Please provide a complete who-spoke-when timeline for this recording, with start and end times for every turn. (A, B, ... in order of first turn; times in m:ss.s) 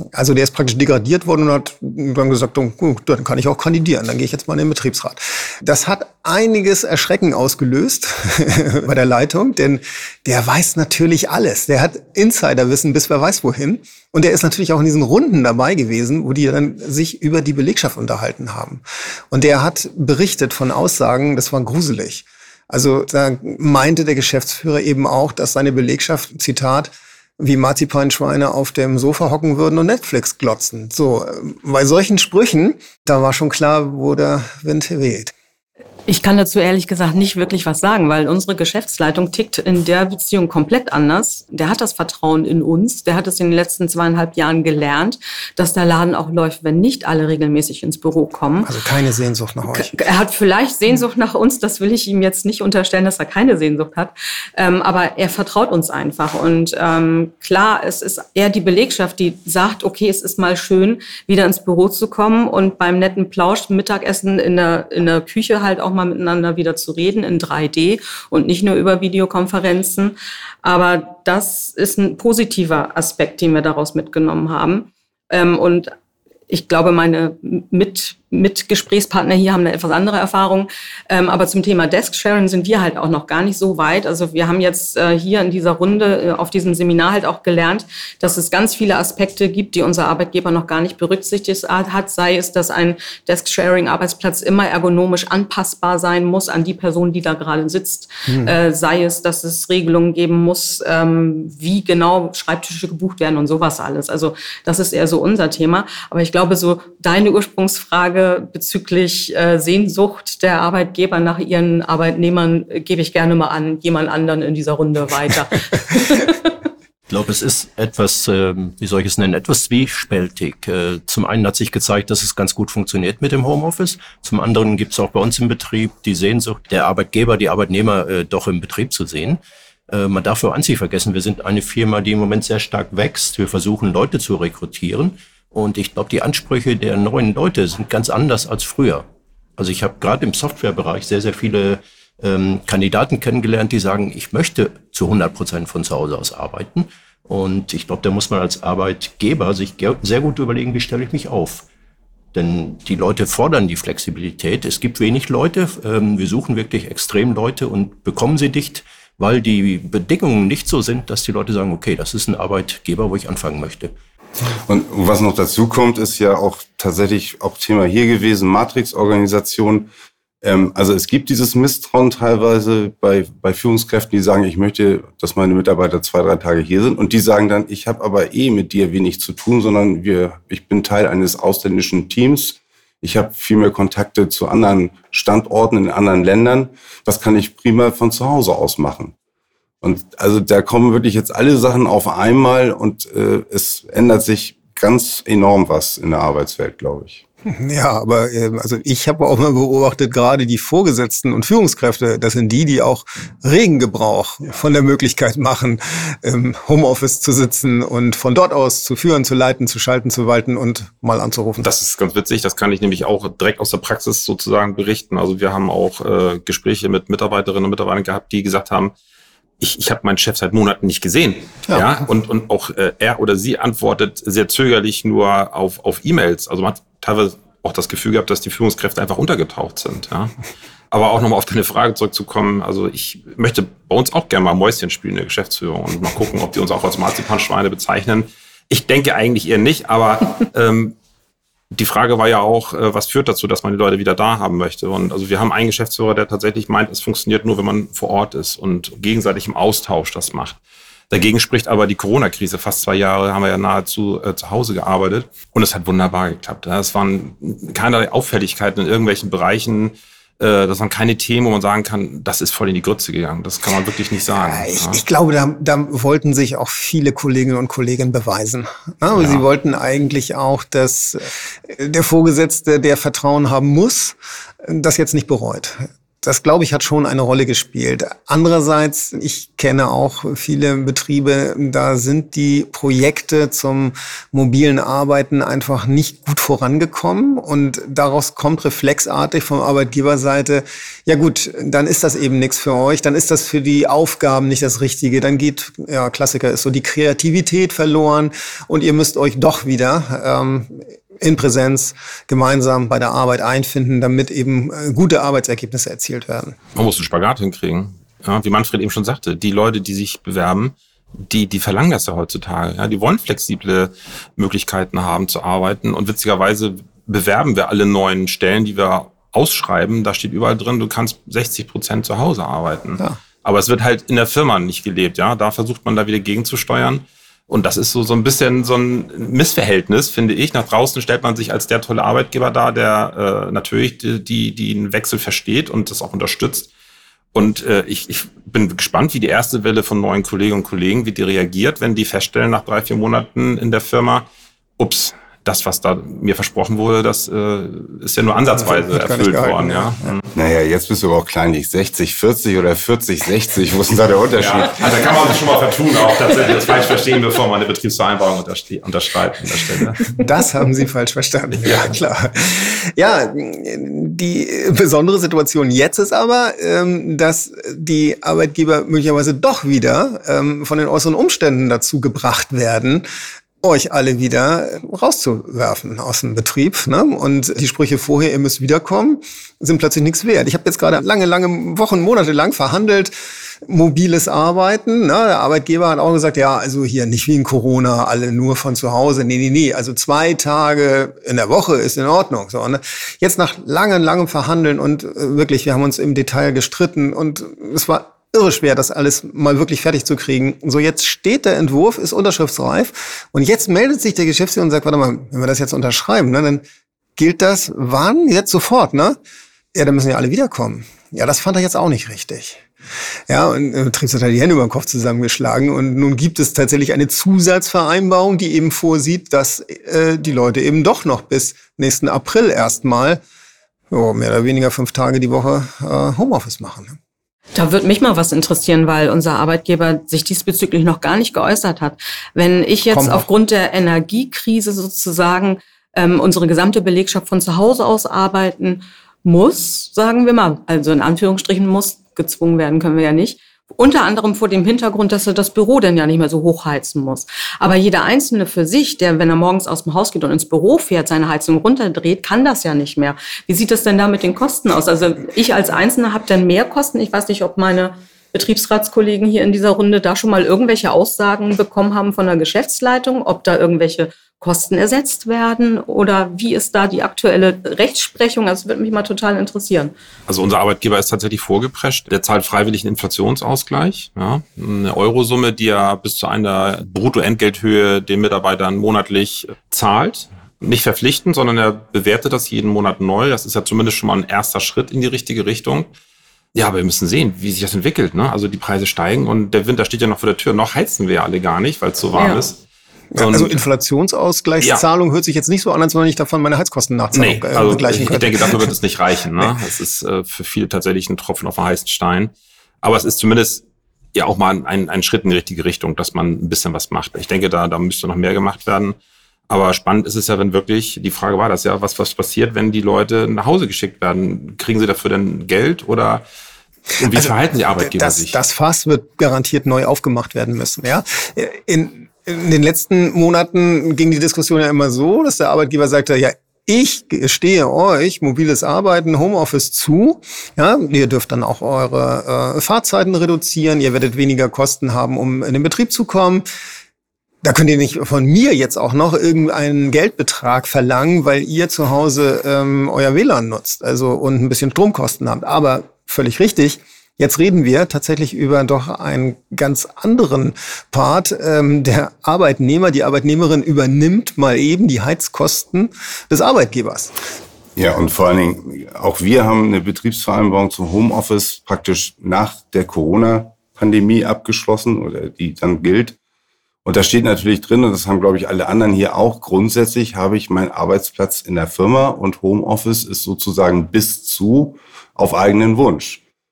0:00.1-0:35.3 A
0:36.1-0:48.7 B
0:48.6-0:50.0 A
0:49.7-1:15.9 B
1:16.5-1:56.5 B
1:57.1-2:19.0 C
2:19.6-2:31.7 C
2:32.3-2:43.9 C
2:44.5-2:49.9 D
2:50.4-3:09.1 D
3:09.8-3:17.2 D
3:17.5-3:31.7 A
3:31.6-3:38.9 E
3:39.6-3:50.4 E
3:50.9-4:01.0 E
4:01.7-4:10.6 E
4:11.1-4:25.0 E
4:24.4-5:06.6 A
4:29.1-4:29.4 E
5:06.8-5:36.7 E
5:37.3-5:44.3 E
5:44.8-5:50.3 E
5:48.6-5:50.1 A
5:50.3-5:54.9 D
5:54.4-6:00.1 E
6:00.2-6:13.0 A
6:13.6-6:23.1 A
6:23.6-6:46.6 A
6:47.2-6:49.2 A
6:49.7-6:52.7 A
6:53.3-7:03.2 A
7:03.9-7:07.0 A
7:07.6-7:49.9 B
7:12.9-7:13.3 A
7:50.3-8:05.9 E
8:06.6-8:12.6 E
8:12.2-8:12.4 B
8:13.1-8:18.7 A
8:13.2-8:13.6 E
8:17.1-8:29.0 E
8:29.5-8:36.2 E
8:37.0-8:38.4 E
8:37.0-8:56.4 A
8:57.4-9:17.1 A
9:17.8-9:26.2 D
9:26.8-9:36.2 D